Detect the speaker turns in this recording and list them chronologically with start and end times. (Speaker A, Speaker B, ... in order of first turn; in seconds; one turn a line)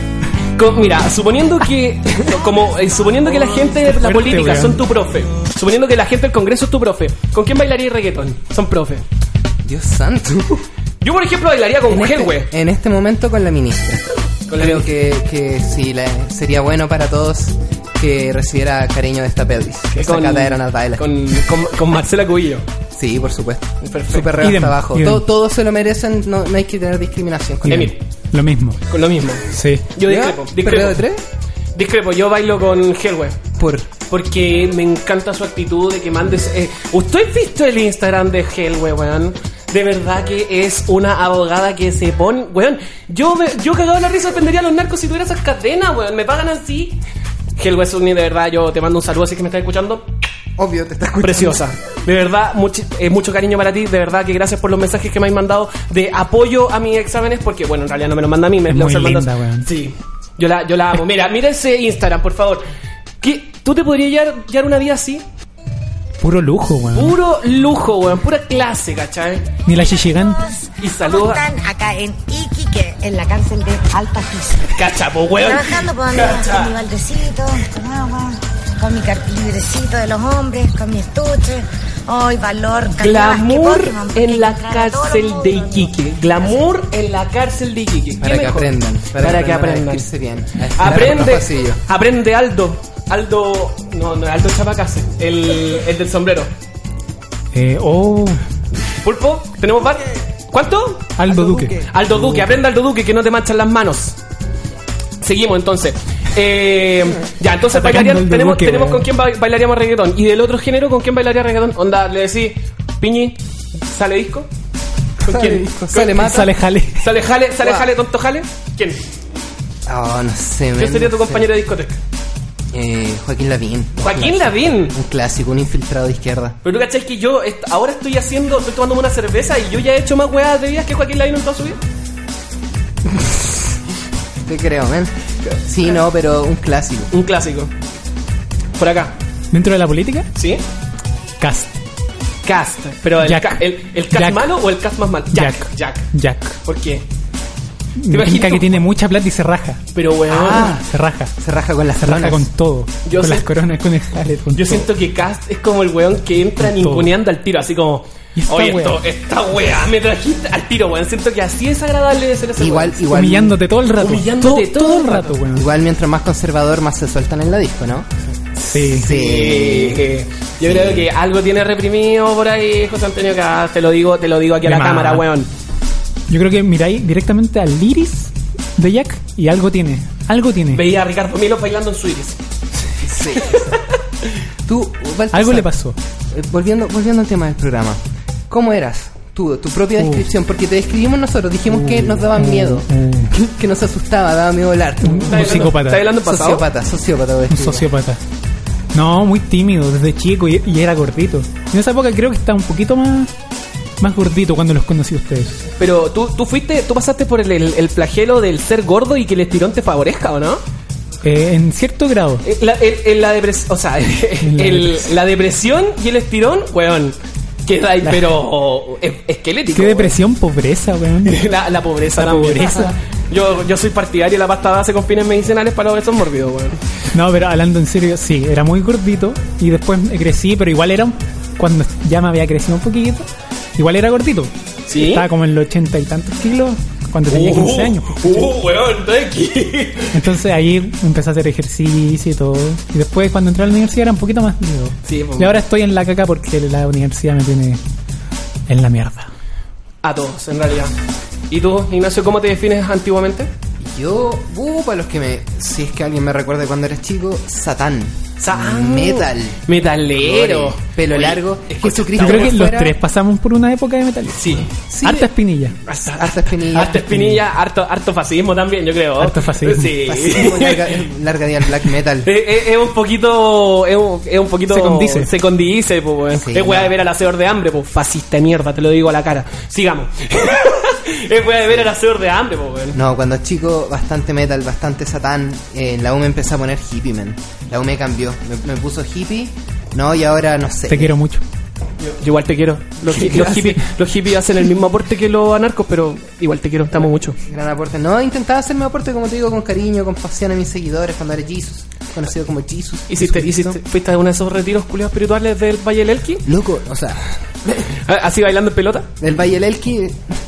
Speaker A: 0.6-9.0
Speaker B: 3.9-4.8
Speaker C: 9.6-10.6
Speaker A: 11.0-12.5
Speaker C: 11.9-21.1
Speaker A: 14.5-14.9
Speaker A: 19.9-22.6
Speaker C: 22.9-27.9
Speaker A: 23.8-24.4
Speaker B: 24.4-25.2
Speaker B: 27.7-28.8
Speaker A: 27.7-27.9
Speaker A: 28.9-31.0
Speaker B: 29.5-29.9
Speaker C: 30.0-31.2
Speaker A: 31.7-33.4
Speaker C: 33.6-33.9
Speaker A: 34.1-47.0
Speaker A: 47.6-50.1
Speaker C: 50.6-51.6
Speaker A: 51.2-62.6
Speaker B: 58.7-59.7
Speaker A: 63.2-65.2
Speaker B: 66.2-67.2
Speaker A: 66.9-69.5
Speaker B: 69.7-70.4
Speaker D: 69.8-74.8
Speaker A: 70.8-71.4
Speaker A: 74.7-76.7
Speaker D: 75.4-86.6
Speaker A: 83.0-90.1
Speaker C: 88.2-91.8
Speaker A: 90.7-96.5
Speaker B: 97.5-98.4
Speaker A: 99.0-104.2
Speaker B: 101.2-101.8
Speaker C: 101.3-101.7
Speaker A: 105.2-114.5
Speaker B: 107.7-109.0
Speaker A: 115.2-116.4
Speaker C: 115.2-116.5
Speaker B: 116.2-117.0
Speaker A: 117.0-119.0
Speaker C: 117.6-117.9
Speaker C: 119.9-121.5
Speaker A: 120.8-122.0
Speaker C: 122.7-126.6
Speaker A: 124.0-125.0
Speaker A: 126.6-131.8
Speaker C: 133.1-133.5
Speaker C: 134.4-135.1
Speaker C: 135.6-137.1
Speaker A: 137.1-137.7
Speaker A: 138.8-139.1
Speaker B: 139.5-140.3
Speaker A: 140.4-140.6
Speaker B: 141.4-141.8
Speaker A: 142.4-146.1
Speaker B: 143.2-144.4
Speaker B: 145.3-146.6
Speaker A: 146.6-147.1
Speaker B: 148.0-149.8
Speaker A: 148.1-148.8
Speaker A: 149.9-150.7
Speaker C: 150.3-150.8
Speaker B: 150.6-151.3
Speaker C: 151.4-152.5
Speaker B: 152.0-154.9
Speaker A: 153.1-153.5
Speaker A: 154.6-163.0
Speaker B: 156.6-157.1
Speaker B: 158.4-159.0
Speaker C: 162.6-163.6
Speaker B: 163.1-165.7
Speaker A: 164.0-165.4
Speaker C: 165.6-168.1
Speaker B: 168.6-169.1
Speaker C: 168.8-170.0
Speaker A: 169.0-175.5
Speaker C: 170.6-171.1
Speaker B: 174.6-175.3
Speaker B: 176.3-180.8
Speaker A: 180.7-182.4
Speaker C: 183.0-183.7
Speaker A: 183.5-183.7
Speaker C: 184.7-185.7
Speaker B: 185.3-186.0
Speaker C: 186.3-197.9
Speaker B: 190.0-190.2
Speaker B: 191.7-193.3
Speaker B: 195.0-196.1
Speaker A: 195.2-196.6
Speaker B: 197.5-198.2
Speaker B: 198.9-203.3
Speaker B: 204.0-205.7
Speaker A: 205.8-210.6
Speaker B: 211.2-212.4
Speaker A: 212.4-220.2
Speaker B: 214.4-215.1
Speaker B: 219.7-221.4
Speaker A: 221.2-226.8
Speaker B: 222.2-222.9
Speaker B: 227.1-233.3
Speaker B: 233.8-238.5
Speaker A: 234.9-235.2
Speaker A: 237.3-240.1
Speaker B: 240.1-247.8
Speaker A: 245.1-245.6
Speaker B: 248.7-249.3
Speaker A: 250.0-250.9
Speaker A: 251.5-253.5
Speaker C: 253.8-259.6
Speaker A: 258.4-262.6
Speaker C: 260.1-262.9
Speaker B: 262.2-265.8
Speaker A: 264.3-264.7
Speaker C: 264.9-265.3
Speaker A: 265.9-271.0
Speaker C: 266.1-267.1
Speaker B: 266.8-267.4
Speaker B: 269.2-269.9
Speaker C: 270.1-272.3
Speaker A: 272.2-283.0
Speaker B: 274.7-275.3
Speaker C: 276.3-276.9
Speaker C: 282.9-291.1
Speaker B: 290.9-291.4
Speaker A: 292.0-297.4
Speaker C: 293.0-293.8
Speaker C: 297.4-303.8
Speaker A: 303.1-306.4
Speaker C: 306.4-307.2
Speaker A: 307.9-309.1
Speaker C: 309.2-310.2